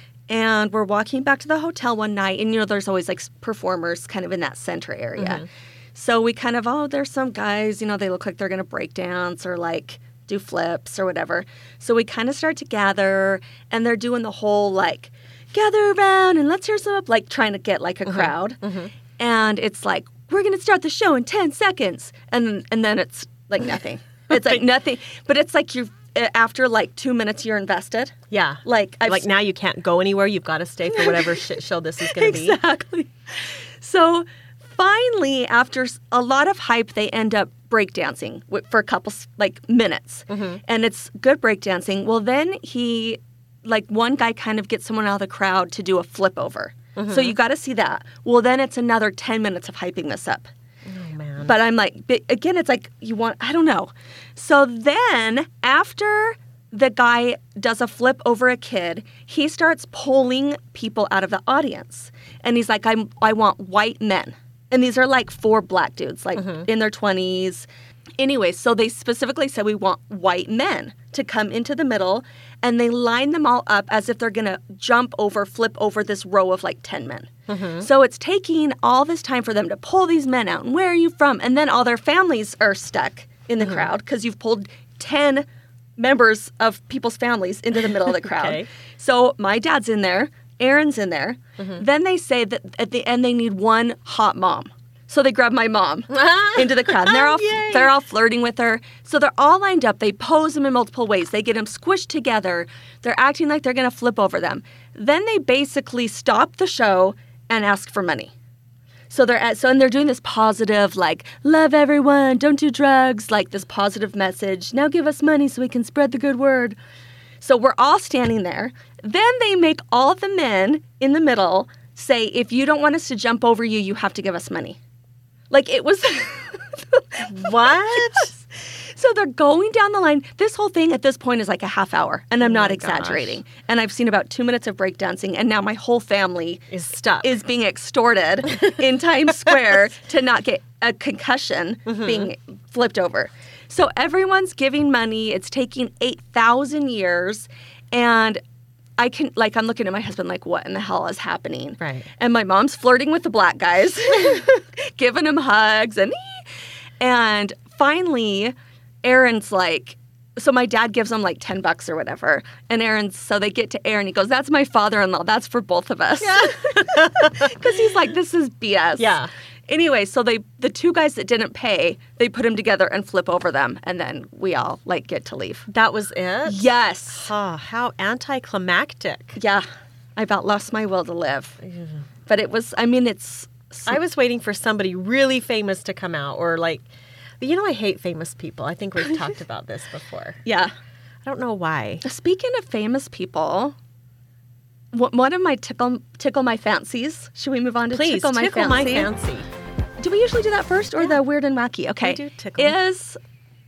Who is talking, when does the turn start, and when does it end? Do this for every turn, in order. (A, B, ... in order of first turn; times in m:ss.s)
0:00.3-0:18.6 A
0:05.2-0:05.4 B
0:18.0-0:18.9 B
0:19.2-0:29.2 A
0:28.3-0:32.6 B
0:30.9-0:31.4 A
0:32.0-0:50.5 A
0:40.3-0:40.6 B
0:47.0-0:47.4 B
0:50.8-0:51.5 B
0:51.4-1:07.7 A
1:06.4-1:06.7 B
1:08.2-1:25.4 A
1:17.5-1:17.9 B
1:23.6-1:23.9 B
1:26.0-1:48.3 A
1:28.0-1:28.7 B
1:36.1-1:37.9 B
1:49.1-1:56.8 A
1:57.4-2:04.8 A
2:05.5-2:16.7 A
2:07.3-2:08.3 B
2:12.4-2:13.4 B
2:16.7-2:17.3 B
2:17.2-2:28.4 A
2:21.9-2:22.3 B
2:29.0-2:36.4 A
2:31.8-2:32.1 B
2:37.0-2:55.7 A
2:46.2-2:47.6 B
2:49.0-2:49.3 B
2:55.7-2:56.6 B
2:56.5-2:57.3 A
2:57.1-2:59.4 B
2:59.4-2:59.6 A
3:00.2-3:01.6 A
3:01.6-3:02.0 B
3:02.3-3:04.0 A
3:03.8-3:06.8 B
3:07.4-3:10.4 B
3:10.4-3:10.7 A
3:11.2-3:12.0 B
3:12.0-3:13.8 A
3:14.9-3:19.1 A
3:17.9-3:19.5 B
3:20.0-3:23.2 A
3:22.0-3:22.8 B